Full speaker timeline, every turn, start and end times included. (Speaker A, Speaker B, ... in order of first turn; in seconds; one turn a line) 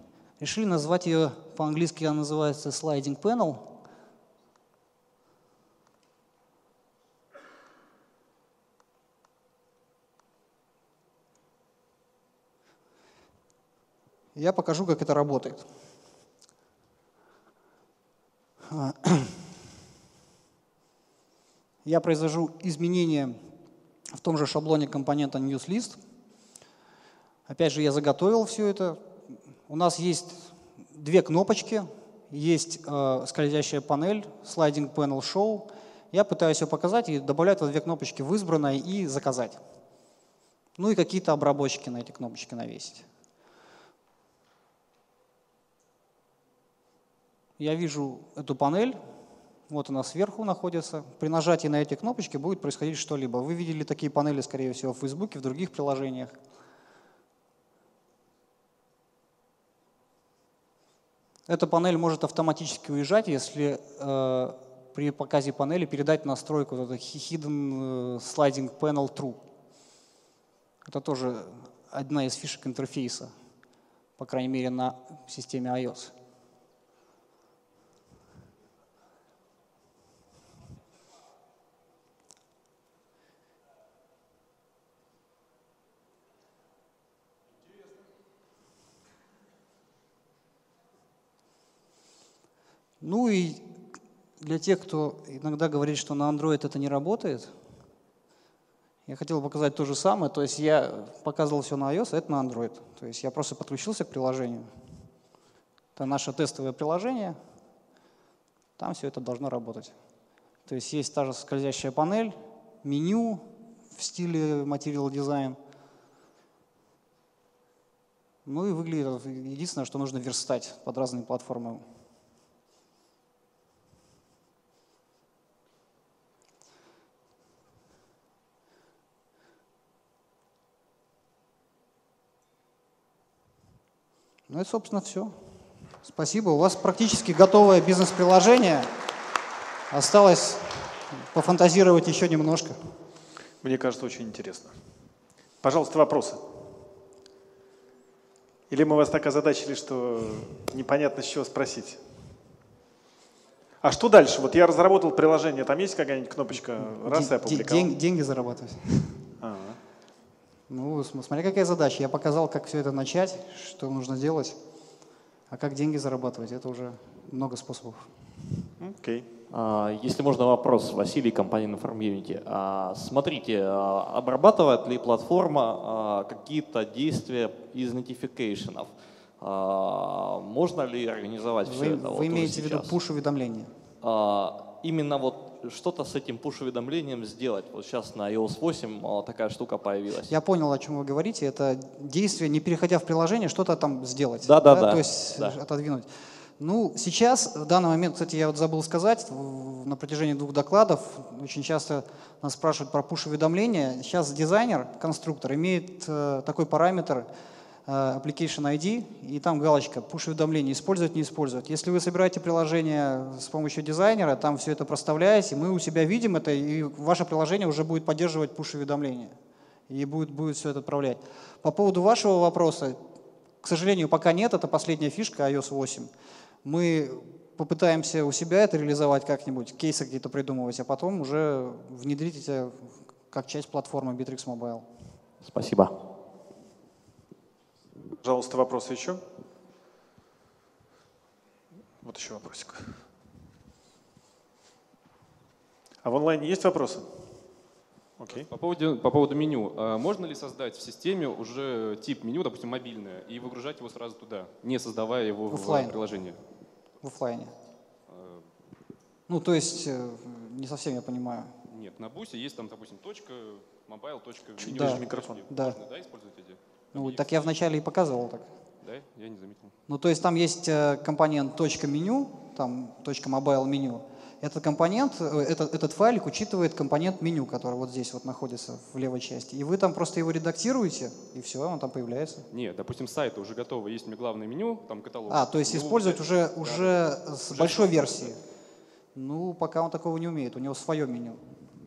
Speaker A: 0.4-3.6
Speaker A: 14.3-15.7
Speaker A: 18.7-19.4
Speaker A: 21.8-23.4
Speaker A: 24.2-26.0
Speaker A: 27.5-29.0
Speaker A: 29.7-39.6
Speaker A: 40.8-43.0
Speaker A: 47.6-49.0
Speaker A: 49.7-56.3
Speaker A: 61.5-69.4
Speaker A: 70.8-73.3
Speaker A: 74.2-76.1
Speaker A: 93.0-93.7
Speaker A: 94.4-97.5
Speaker A: 99.1-104.7
Speaker A: 106.0-107.4
Speaker A: 108.8-109.9
Speaker A: 110.7-115.6
Speaker A: 118.5-121.8
Speaker A: 134.5-135.3
Speaker A: 136.0-138.9
Speaker A: 139.9-142.8
Speaker B: 143.6-144.7
Speaker B: 145.6-146.4
Speaker B: 148.7-152.0
Speaker B: 153.8-157.9
Speaker A: 156.8-159.2
Speaker B: 159.4-159.8
Speaker A: 160.7-164.6
Speaker A: 165.5-168.1
Speaker B: 168.8-169.2
Speaker C: 169.5-183.0
Speaker A: 181.6-183.7
Speaker C: 184.0-190.3
Speaker A: 190.3-196.1
Speaker C: 194.4-195.6
Speaker A: 196.6-207.3
Speaker A: 207.9-219.3
Speaker A: 219.9-223.0
Speaker A: 223.6-226.1
Speaker A: 226.6-234.8
Speaker C: 235.4-235.9
Speaker B: 238.2-239.2
Speaker B: 242.0-243.0
Speaker B: 246.0-247.1
Speaker B: 248.2-248.5
Speaker D: 248.3-256.4
Speaker A: 255.5-256.0
Speaker A: 257.0-257.5
Speaker D: 258.1-258.4
Speaker A: 259.3-261.5
Speaker D: 261.7-267.4
Speaker B: 264.6-265.4
Speaker A: 264.7-265.8
Speaker A: 266.9-268.5
Speaker D: 268.8-269.7
Speaker A: 269.9-282.4
Speaker D: 282.5-288.3
Speaker A: 285.3-288.4
Speaker A: 289.1-291.4